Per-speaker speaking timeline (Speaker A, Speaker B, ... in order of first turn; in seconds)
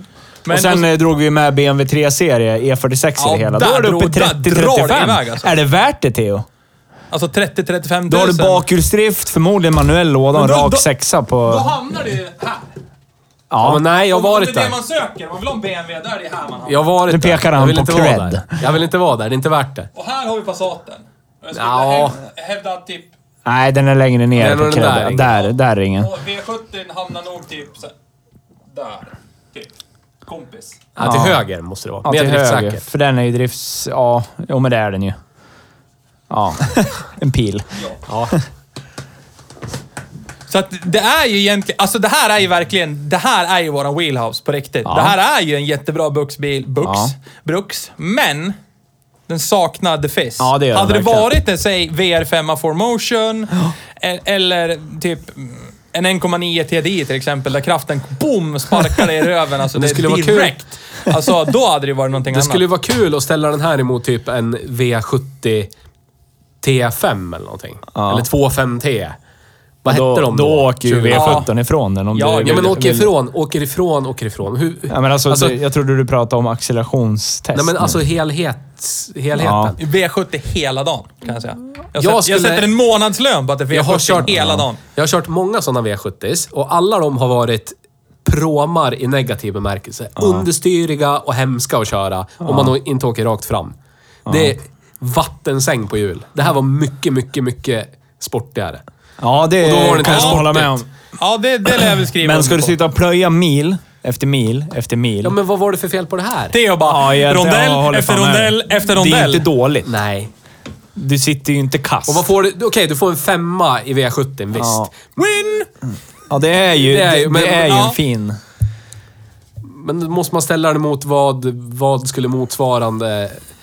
Speaker A: 0.4-0.9, 3.2-5.5, 7.1-8.6, 10.3-10.8, 11.4-12.7, 14.1-16.8, 19.9-23.1, 25.3-27.9, 28.7-29.7, 30.3-30.8, 40.5-48.6, 49.3-62.6, 71.1-71.5, 72.1-72.8, 79.8-84.8, 100.0-100.4, 101.2-102.7, 106.5-109.5, 117.6-118.0
Speaker B: 0.5-6.5, 8.1-11.7, 13.5-13.8, 17.1-18.6, 23.4-26.1, 31.0-31.4, 32.0-35.2, 36.3-37.7, 44.8-45.1, 46.8-47.1, 50.4-51.3, 67.9-68.3, 69.9-73.1, 74.9-78.0, 79.3-79.8, 84.4-84.6, 90.2-90.5, 92.4-92.7, 94.3-94.5, 99.2-100.9, 102.2-105.4, 106.8-109.9, 111.0-112.3, 114.5-114.9, 116.3-118.4
Speaker C: 13.6-14.8, 16.7-19.9, 21.5-22.1, 24.3-25.3, 30.9-32.8, 38.1-38.4, 59.8-60.6, 62.3-65.7, 66.6-69.2, 69.8-71.5, 72.4-75.6, 77.5-79.8, 82.0-82.7, 83.7-93.7, 94.2-98.8, 99.6-100.8, 105.2-106.6, 109.8-110.3, 112.1-115.7, 116.8-117.8, 119.6-123.4